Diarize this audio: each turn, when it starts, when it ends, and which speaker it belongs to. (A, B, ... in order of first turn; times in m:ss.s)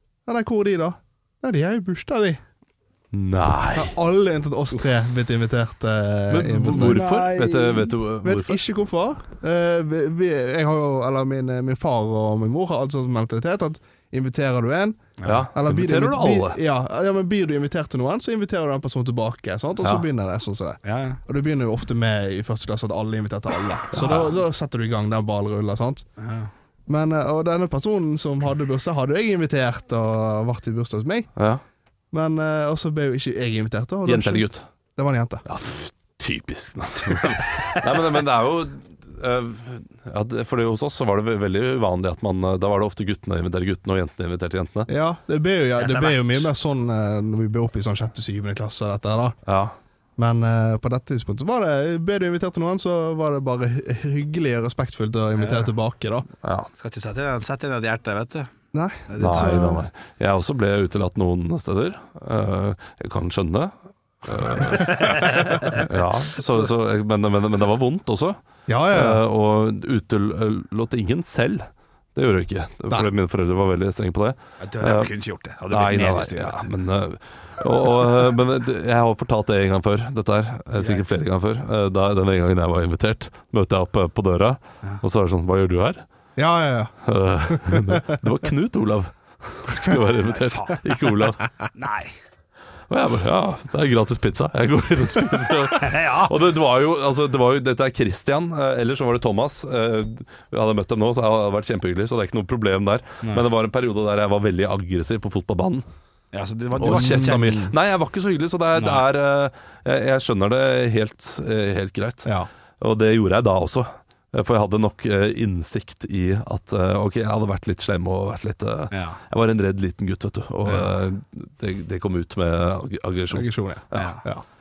0:00.3-0:02.4 A
0:03.1-0:03.9 B
0:03.8-0:07.4 A
0:06.3-0:08.6 B
0:06.8-0:07.8 C
0:08.2-0:26.0 A
0:15.2-0:15.5 C
0:15.3-0:16.6 B
0:20.8-0:21.2 C
0:23.9-0:24.3 B
0:26.2-0:26.5 C
0:26.9-0:31.3 A
0:32.1-0:35.4 A
0:34.1-0:34.6 B
0:35.5-0:44.9 B
0:44.9-0:49.4 A
0:45.8-0:46.5 C
0:49.5-0:49.8 B
0:50.2-0:56.3 A
0:55.4-0:55.7 C
0:56.4-0:56.7 B
0:56.8-0:58.5 C
0:58.7-0:59.8 A
0:59.1-0:59.6 C
0:59.2-1:03.7 B
1:04.2-1:08.4 B
1:04.7-1:05.8 C
1:08.7-1:09.2 A
1:08.9-1:15.1 B
1:14.6-1:16.7 C
1:15.7-1:26.0 B
1:20.8-1:21.0 C
1:26.4-1:26.9 A
1:27.1-1:31.4 B
1:27.5-1:28.2 A
1:30.3-1:30.8 C
1:31.8-1:32.1 C
1:32.9-1:45.8 B
1:35.8-1:36.3 C
1:46.3-1:47.6 C
1:46.8-2:04.2 B
1:46.9-1:47.7 A
1:48.8-1:49.0 C
1:58.9-1:59.2 C
2:03.3-2:04.4 A
2:03.9-2:04.2 C